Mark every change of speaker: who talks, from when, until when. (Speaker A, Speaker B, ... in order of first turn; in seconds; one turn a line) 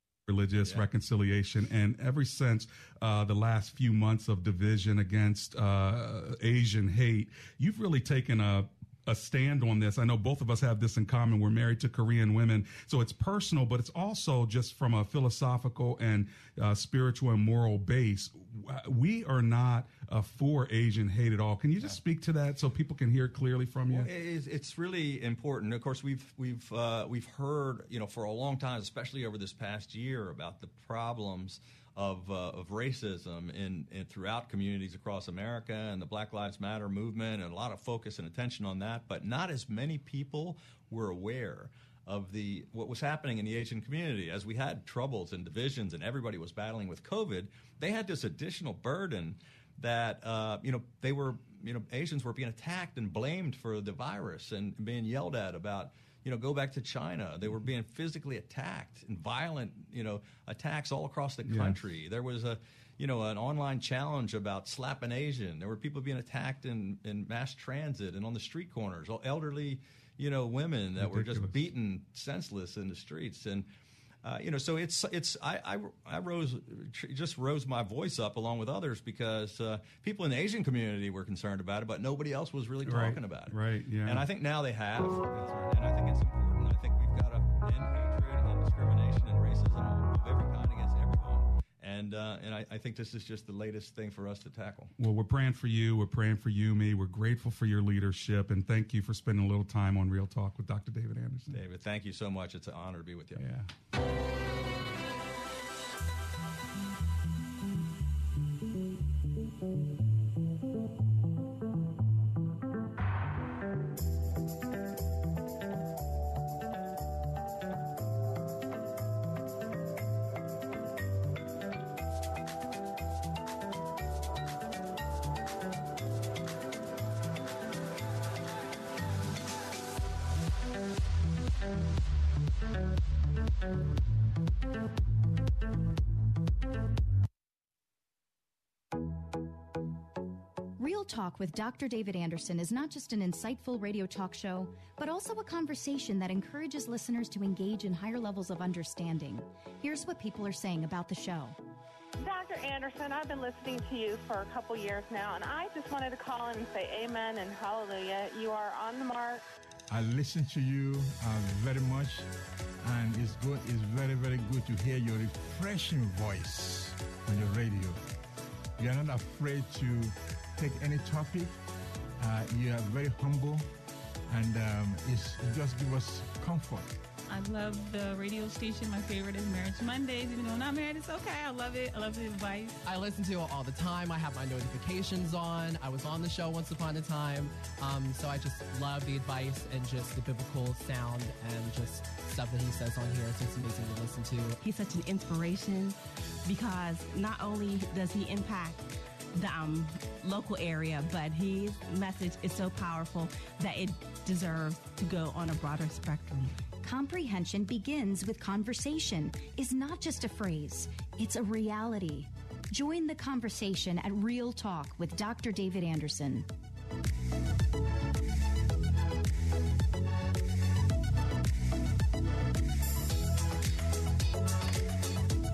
Speaker A: 0.3-24.1
Speaker B: 23.9-73.7
Speaker A: 61.4-61.8
Speaker A: 71.0-71.6
Speaker B: 74.2-94.9
Speaker A: 82.8-84.2
Speaker A: 95.0-101.6
Speaker B: 101.5-103.5
Speaker A: 103.4-103.7
Speaker C: 140.8-151.5
Speaker D: 152.2-159.4
Speaker E: 159.9-162.3
Speaker E: 162.8-168.0
Speaker E: 168.8-171.6
Speaker E: 172.2-173.7
Speaker E: 174.3-176.9
Speaker F: 177.3-182.8
Speaker G: 182.8-194.6
Speaker H: 194.6-206.6
Speaker C: 206.8-216.5